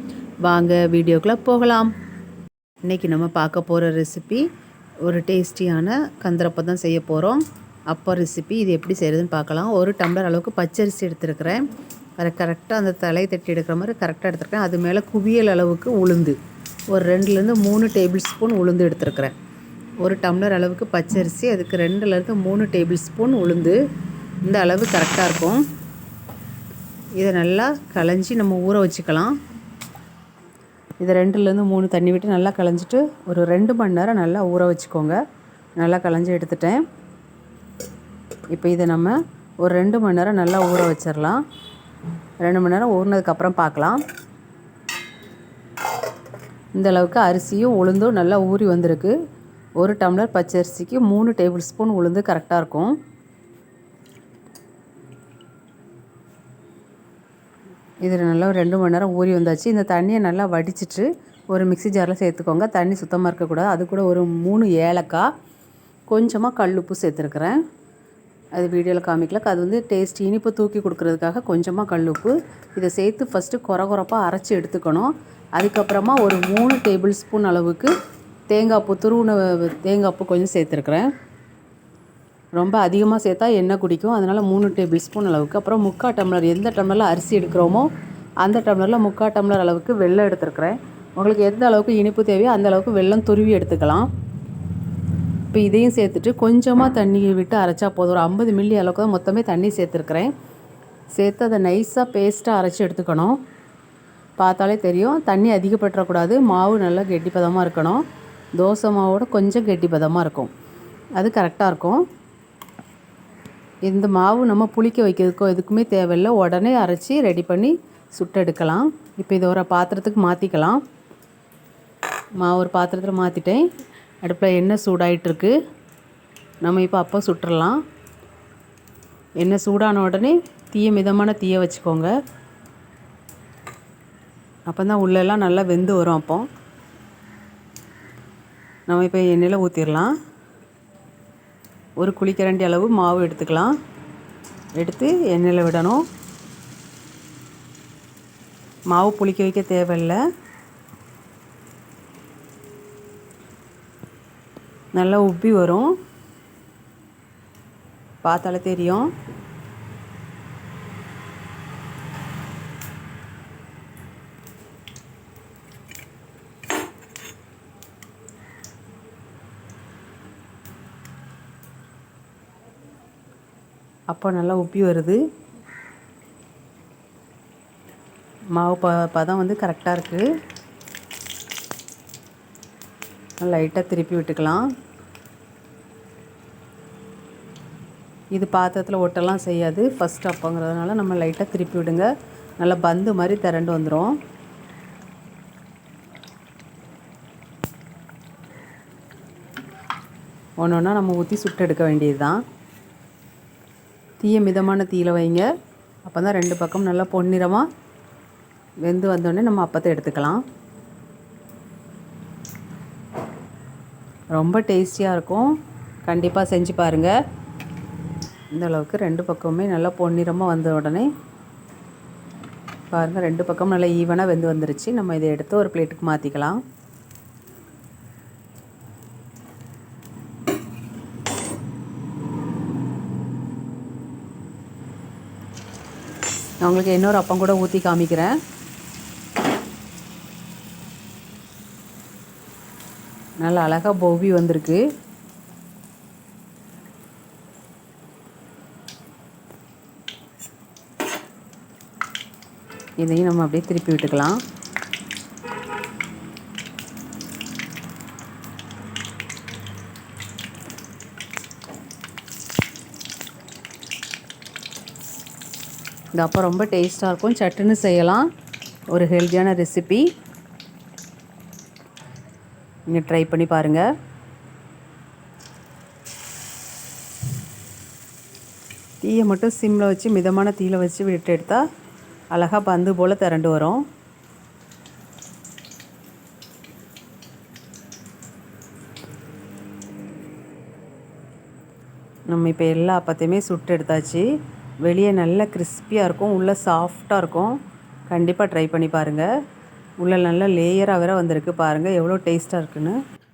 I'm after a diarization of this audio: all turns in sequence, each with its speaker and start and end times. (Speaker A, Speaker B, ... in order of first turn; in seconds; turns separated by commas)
Speaker A: 0.4-1.9, Speaker A: 2.8-4.5, Speaker A: 5.0-11.7, Speaker A: 12.2-16.4, Speaker A: 16.9-19.3, Speaker A: 20.0-23.8, Speaker A: 24.4-25.6, Speaker A: 27.2-29.3, Speaker A: 31.0-35.2, Speaker A: 35.8-36.8, Speaker A: 38.5-41.4, Speaker A: 42.4-44.0, Speaker A: 46.7-49.1, Speaker A: 49.8-53.0, Speaker A: 58.0-65.3, Speaker A: 66.1-67.6, Speaker A: 68.5-77.9, Speaker A: 78.5-81.1, Speaker A: 82.6-87.9, Speaker A: 88.4-94.1, Speaker A: 95.5-100.3, Speaker A: 101.2-103.4, Speaker A: 104.4-108.0, Speaker A: 108.6-110.5, Speaker A: 111.2-112.0, Speaker A: 113.8-120.8, Speaker A: 122.4-123.6, Speaker A: 124.2-125.5, Speaker A: 126.6-127.8, Speaker A: 129.4-132.1, Speaker A: 134.7-136.5, Speaker A: 138.9-140.1, Speaker A: 142.0-143.7, Speaker A: 144.8-146.0, Speaker A: 148.9-150.2, Speaker A: 154.9-155.9, Speaker A: 158.2-159.1, Speaker A: 174.1-175.2, Speaker A: 178.5-180.3, Speaker A: 183.4-184.7, Speaker A: 188.3-194.2, Speaker A: 200.6-202.4, Speaker A: 204.2-205.5, Speaker A: 206.0-207.7, Speaker A: 208.8-210.4, Speaker A: 214.3-217.1, Speaker A: 218.5-221.1, Speaker A: 222.9-226.6, Speaker A: 236.6-238.4, Speaker A: 243.4-244.8, Speaker A: 253.0-254.4, Speaker A: 266.1-268.3, Speaker A: 268.9-270.1, Speaker A: 272.9-273.8, Speaker A: 279.0-281.6, Speaker A: 282.3-283.8, Speaker A: 292.3-294.3, Speaker A: 294.8-297.6, Speaker A: 298.1-299.3, Speaker A: 300.0-303.0